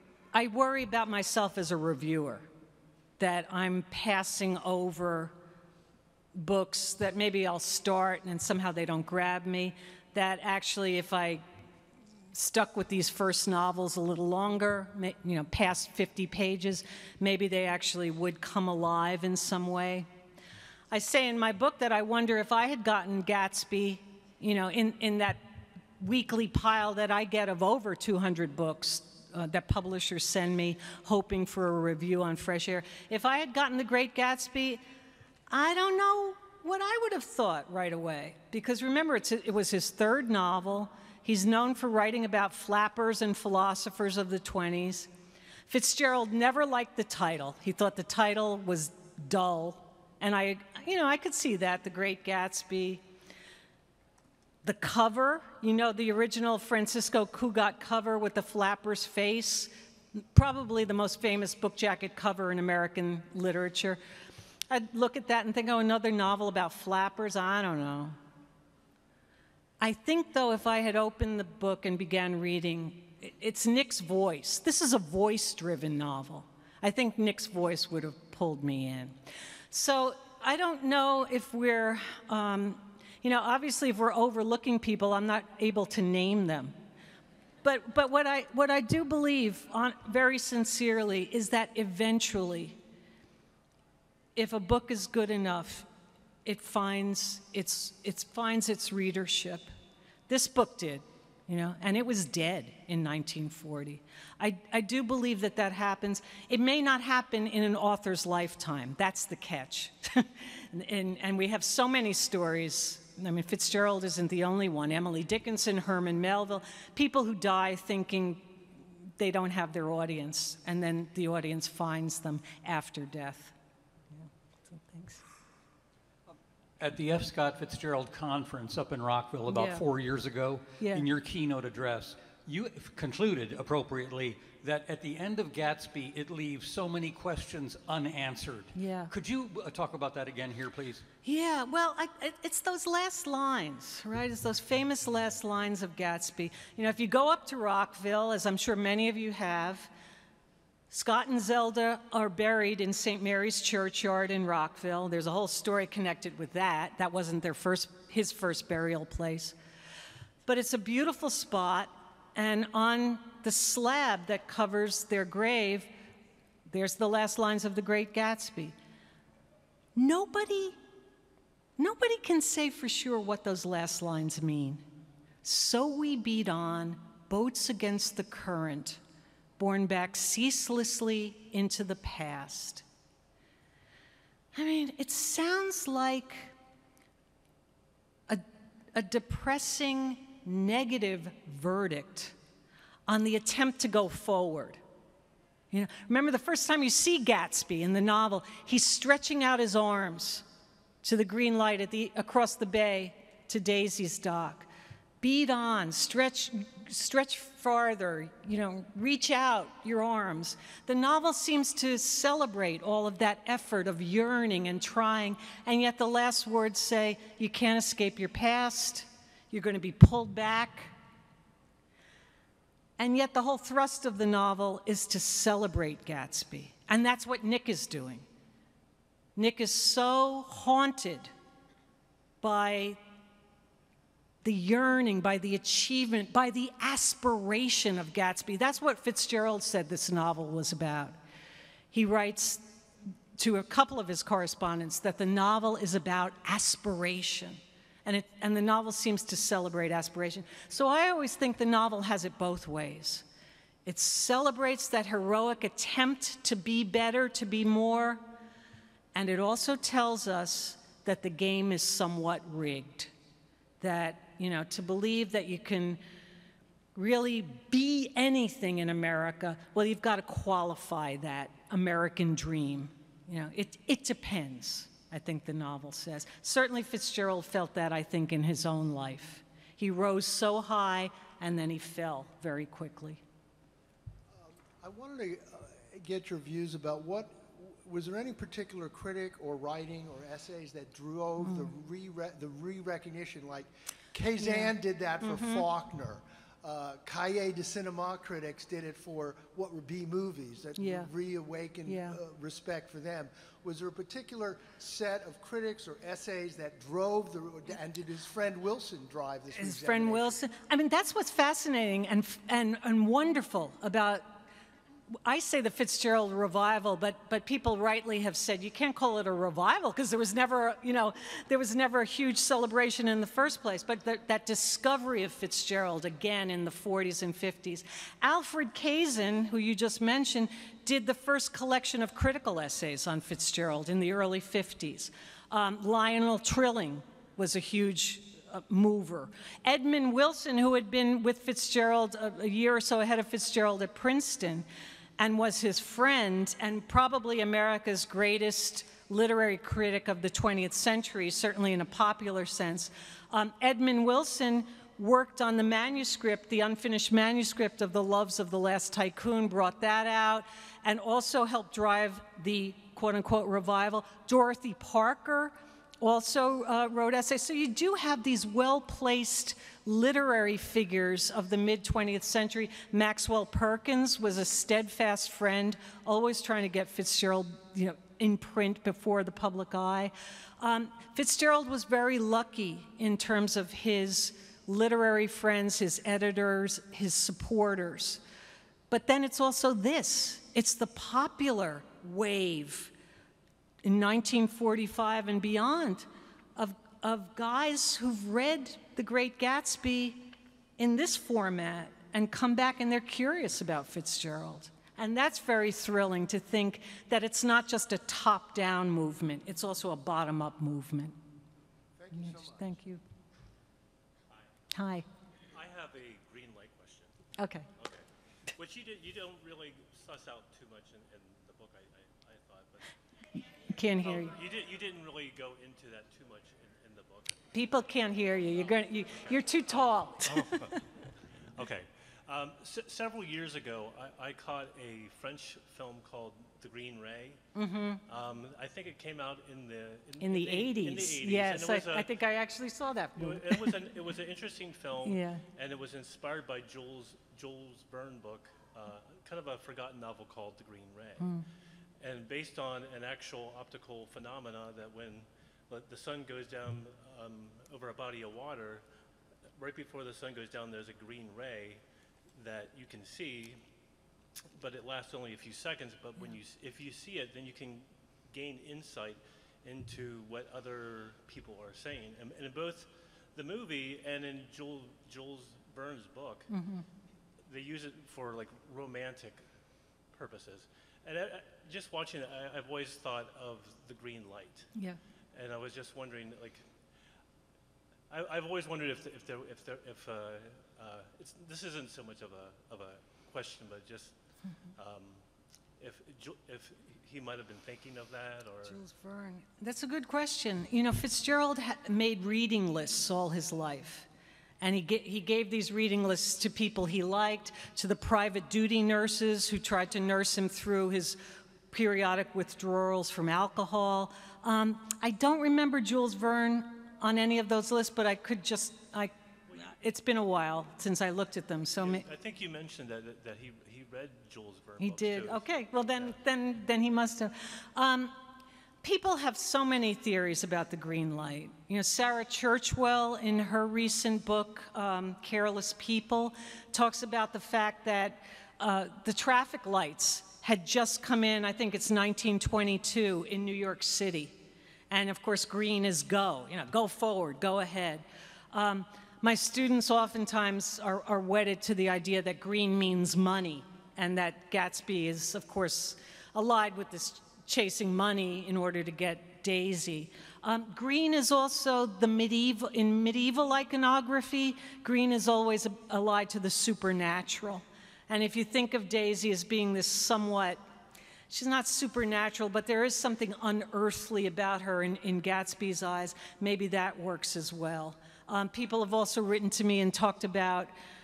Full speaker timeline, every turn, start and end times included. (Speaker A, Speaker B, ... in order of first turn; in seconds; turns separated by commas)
Speaker A: 0.3-2.5, Speaker A: 3.2-5.3, Speaker A: 6.3-11.4, Speaker A: 12.3-20.1, Speaker A: 20.9-25.4, Speaker A: 26.0-34.8, Speaker A: 35.5-45.1, Speaker A: 45.7-53.0, Speaker A: 54.6-64.0, Speaker A: 64.7-68.2, Speaker A: 69.8-79.2, Speaker A: 79.7-86.7, Speaker A: 87.6-92.8, Speaker A: 94.4-95.9, Speaker A: 96.5-99.7, Speaker A: 100.3-118.7, Speaker A: 119.2-123.5, Speaker A: 124.1-125.2, Speaker B: 126.8-141.1, Speaker A: 129.5-129.8, Speaker A: 130.8-131.1, Speaker A: 138.8-139.1, Speaker A: 141.2-149.9, Speaker A: 150.9-159.6, Speaker A: 160.5-165.9, Speaker A: 166.7-168.8, Speaker A: 170.0-170.8, Speaker A: 171.8-174.8, Speaker A: 175.4-179.0, Speaker A: 179.6-182.8, Speaker A: 184.5-186.5, Speaker A: 188.3-192.3, Speaker A: 193.1-194.8, Speaker A: 195.7-200.4, Speaker A: 201.0-204.7, Speaker A: 205.2-220.9, Speaker A: 223.0-228.2, Speaker A: 229.4-231.3, Speaker A: 232.4-233.0, Speaker A: 234.4-241.2, Speaker A: 241.9-242.7, Speaker A: 243.4-253.2, Speaker A: 253.9-258.2, Speaker A: 259.1-263.1, Speaker A: 263.8-266.0, Speaker A: 266.9-283.2, Speaker C: 284.3-310.4, Speaker A: 291.4-291.8, Speaker A: 294.4-295.7, Speaker A: 300.8-301.1, Speaker A: 301.9-302.2, Speaker A: 309.5-314.4, Speaker A: 315.2-344.7, Speaker A: 345.2-388.2, Speaker A: 388.9-392.9, Speaker A: 393.8-411.1, Speaker C: 412.0-412.7, Speaker A: 412.1-413.0, Speaker A: 414.7-415.1, Speaker D: 415.5-417.1, Speaker A: 417.4-417.7, Speaker D: 417.8-422.9, Speaker A: 423.7-424.4, Speaker D: 424.0-427.5, Speaker A: 427.5-430.7, Speaker D: 428.5-430.9, Speaker D: 431.6-437.4, Speaker A: 437.6-438.0, Speaker D: 438.1-442.1, Speaker A: 440.2-443.7, Speaker D: 443.2-451.3, Speaker A: 445.0-445.4, Speaker A: 451.2-451.5, Speaker D: 452.0-458.8, Speaker D: 459.6-461.8, Speaker D: 462.3-463.6, Speaker D: 464.6-476.5, Speaker A: 476.5-476.9, Speaker D: 477.4-479.5, Speaker D: 480.1-484.7, Speaker D: 485.3-486.6, Speaker D: 488.1-494.2, Speaker D: 494.8-495.2, Speaker D: 495.8-498.8, Speaker A: 498.6-504.1, Speaker A: 504.6-511.2, Speaker A: 511.7-522.1, Speaker D: 521.8-526.2, Speaker A: 524.8-528.2, Speaker A: 528.8-544.4, Speaker A: 544.9-570.6, Speaker A: 571.3-580.7